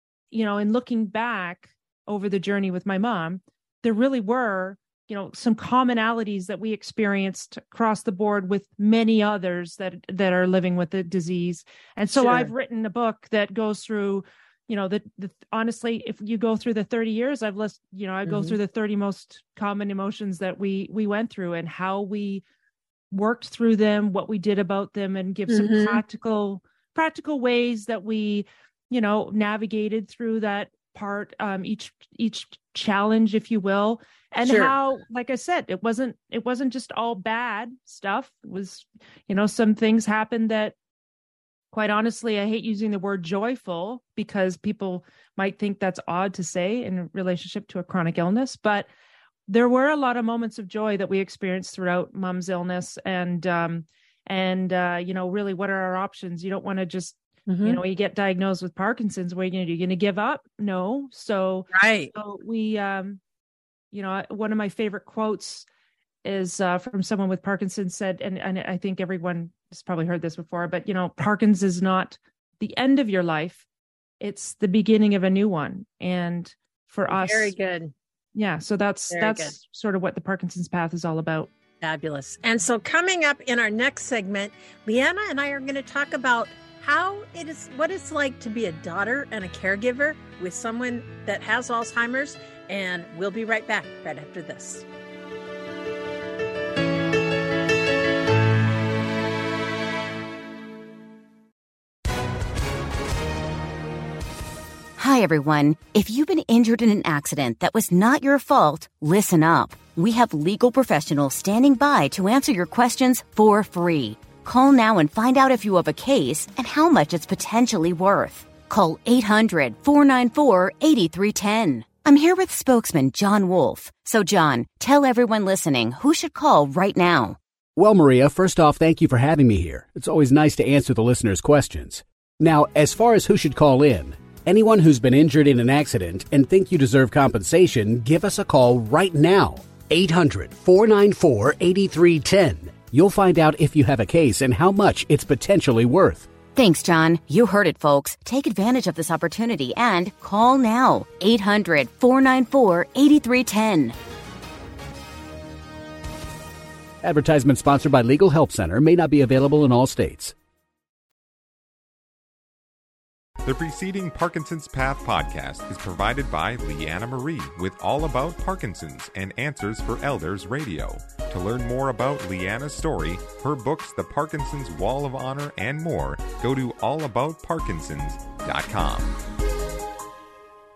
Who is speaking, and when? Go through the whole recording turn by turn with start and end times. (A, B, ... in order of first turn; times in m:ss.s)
0:00.3-0:22.4 A
0:12.2-0:12.5 B
0:18.3-0:18.6 B
0:23.1-0:40.8 A
0:25.5-0:26.0 B
0:34.4-0:34.7 B
0:41.7-0:48.9 A
0:49.5-1:03.2 A
0:57.5-0:57.8 B
1:01.7-1:02.1 B
1:03.9-1:05.7 A
1:06.2-1:13.6 A
1:14.2-1:17.5 A
1:17.1-1:17.9 B
1:18.4-1:21.5 A
1:19.1-1:19.6 B
1:21.8-1:34.8 B
1:45.0-2:07.4 C
2:07.8-2:26.3 D
2:26.6-2:34.0 C
2:37.0-2:40.3 D
2:43.4-2:59.2 E